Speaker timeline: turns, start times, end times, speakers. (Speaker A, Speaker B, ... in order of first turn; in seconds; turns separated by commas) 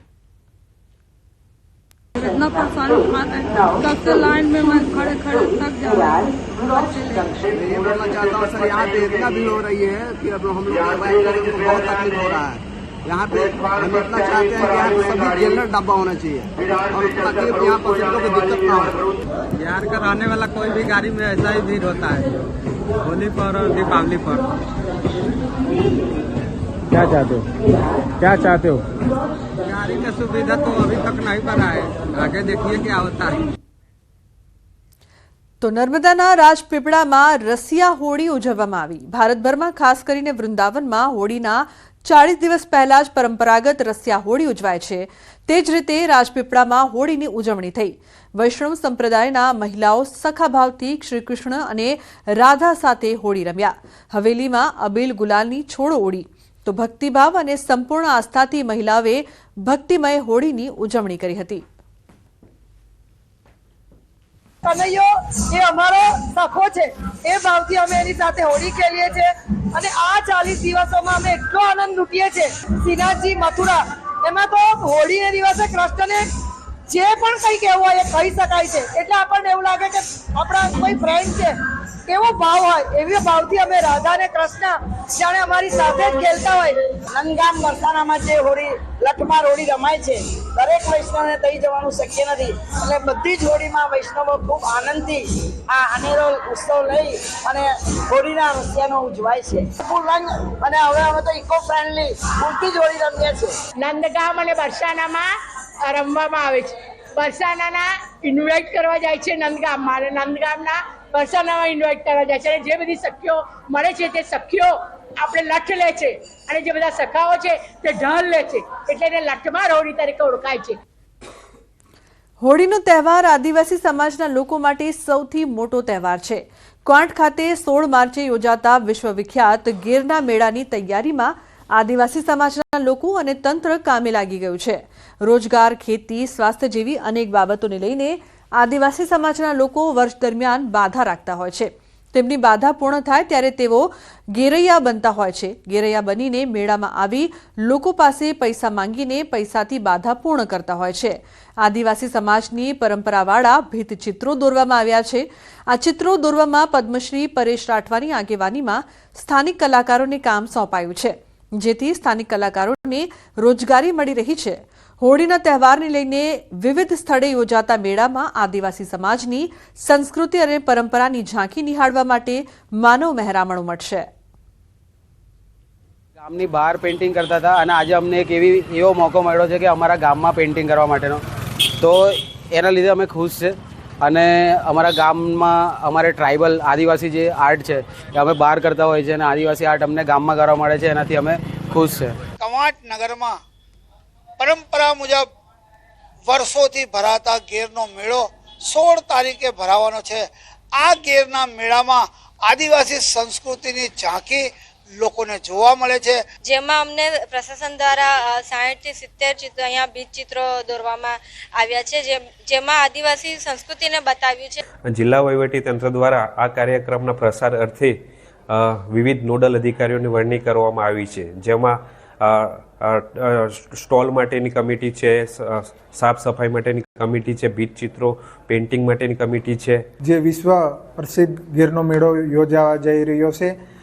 Speaker A: 2.2-7.5, Speaker B: 7.5-19.0, Speaker C: 19.6-22.3, Speaker C: 23.0-24.4, Speaker C: 28.2-28.8, Speaker C: 29.7-33.4, Speaker D: 35.6-61.6, Speaker E: 64.6-76.2, Speaker E: 76.9-81.5, Speaker E: 82.1-103.5, Speaker F: 103.8-105.3, Speaker F: 105.8-120.8, Speaker D: 122.4-174.1, Speaker G: 176.2-181.2, Speaker G: 181.8-192.2, Speaker H: 192.4-193.4, Speaker H: 194.4-195.3, Speaker H: 196.3-204.5, Speaker H: 205.0-206.2, Speaker I: 206.4-214.6, Speaker J: 214.9-217.9, Speaker J: 218.5-229.8, Speaker K: 230.0-233.6